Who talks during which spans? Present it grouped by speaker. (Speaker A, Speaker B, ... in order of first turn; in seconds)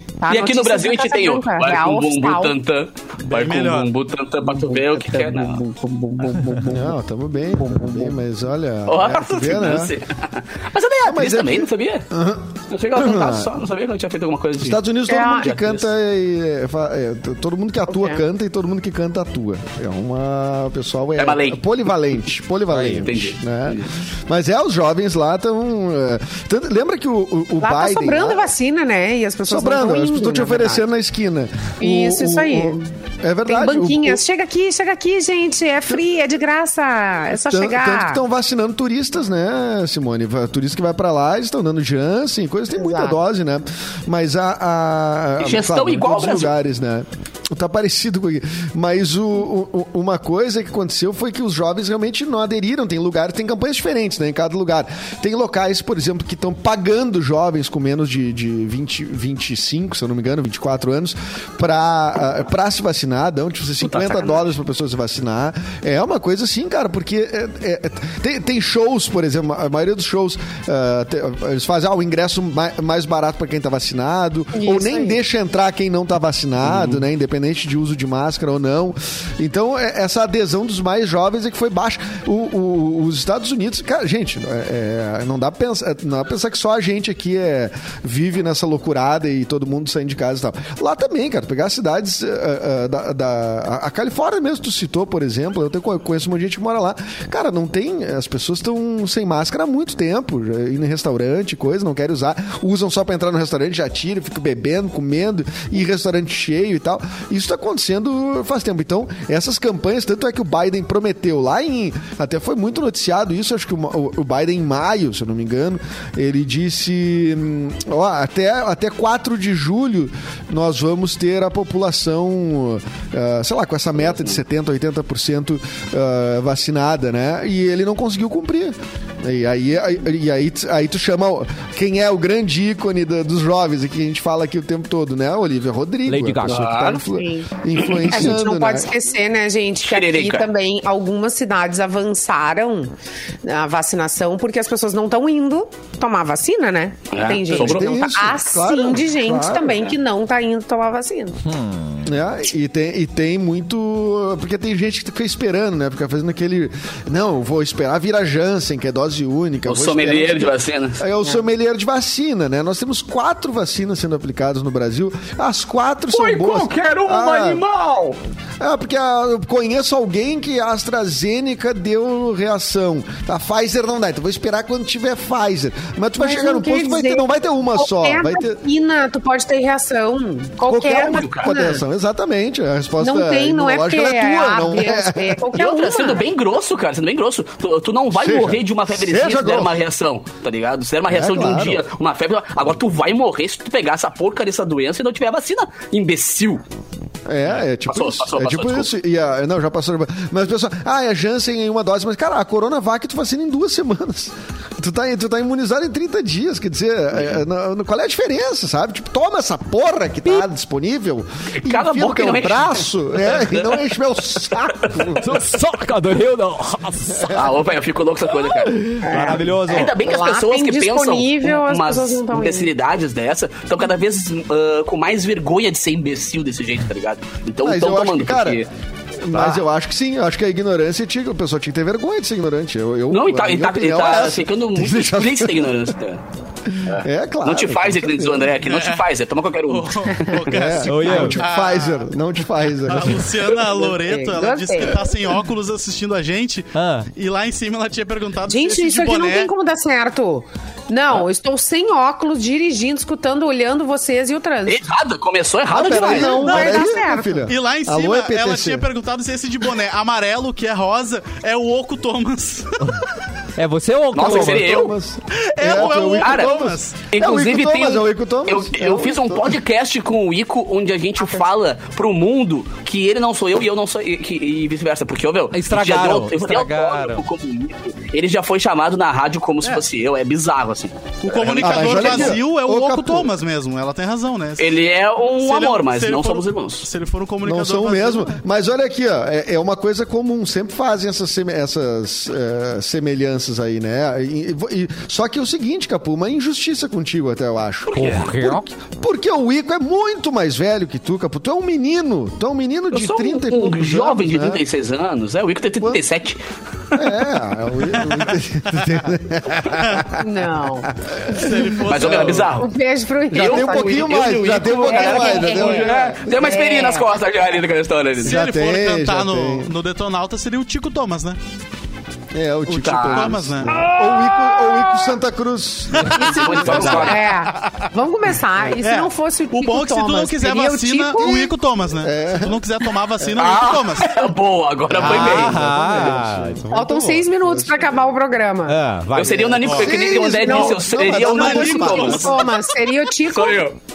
Speaker A: 0.2-2.6, 4.4-6.9, 7.5-8.1, 15.1-15.5, 17.9-18.2, 27.6-30.9, 31.8-32.9, 33.5-38.2, 42.7-43.2, 74.5-75.2, 137.0-137.5, 138.0-142.9, 143.4-151.4, 176.2-181.8, 183.0-186.2, 219.0-222.7, 243.7-245.1, 248.5-254.8, 255.9-257.5, 310.1-310.9, 312.5-317.1, 326.2-331.5, 336.7-338.8, 340.2-343.7
Speaker B: 0.3-5.6, 8.9-12.1, 12.7-15.9, 21.2-21.6, 23.0-23.9, 45.4-46.5, 63.8-64.5, 136.4-137.0, 137.8-138.1, 139.8-140.5, 147.1-148.1, 159.7-161.0, 166.1-168.2, 181.1-181.6, 185.5-196.6, 197.8-198.9, 211.6-213.8, 214.5-215.1, 217.3-219.0, 219.7-228.7, 233.1-236.2, 236.8-240.8, 254.7-256.5, 264.1-264.9, 265.8-266.5, 267.1-282.4, 284.6-286.9, 297.9-298.5, 302.9-306.4, 306.9-307.1, 311.9-312.7, 313.3-318.4, 322.7-324.3, 326.0-327.3, 333.4-335.6, 339.1-342.5, 343.2-343.8
Speaker C: 3.2-3.9, 238.6-239.1, 239.7-242.0, 242.8-249.5, 256.4-262.9, 265.3-267.0, 281.2-284.8, 285.4-288.4, 309.8-310.1, 311.3-312.6, 318.2-321.4, 322.9-323.8, 326.0-327.8, 328.8-334.3, 339.6-342.3
Speaker D: 6.6-9.9, 11.0-13.5, 14.6-28.5, 29.5-34.2, 37.5-138.9, 147.5-149.9, 152.0-167.6, 168.6-178.6, 180.6-185.5, 188.1-189.8, 191.1-191.8, 197.2-215.4, 217.1-217.6, 227.6-228.6, 229.2-235.8, 236.7-238.6, 240.5-243.3, 255.7-258.9, 264.1-269.6, 281.6-283.3, 287.4-304.6, 306.9-310.2, 310.8-312.4, 313.3-316.2, 318.2-319.7, 322.3-327.1, 331.2-332.6, 334.9-338.0, 339.6-342.5
Speaker E: 22.7-23.1, 136.1-137.0, 151.4-152.1, 215.2-217.4, 218.7-219.9, 229.3-229.6, 240.9-241.4, 246.7-247.1, 263.6-264.8, 275.5-277.2, 297.9-298.6, 335.0-336.9, 338.6-339.7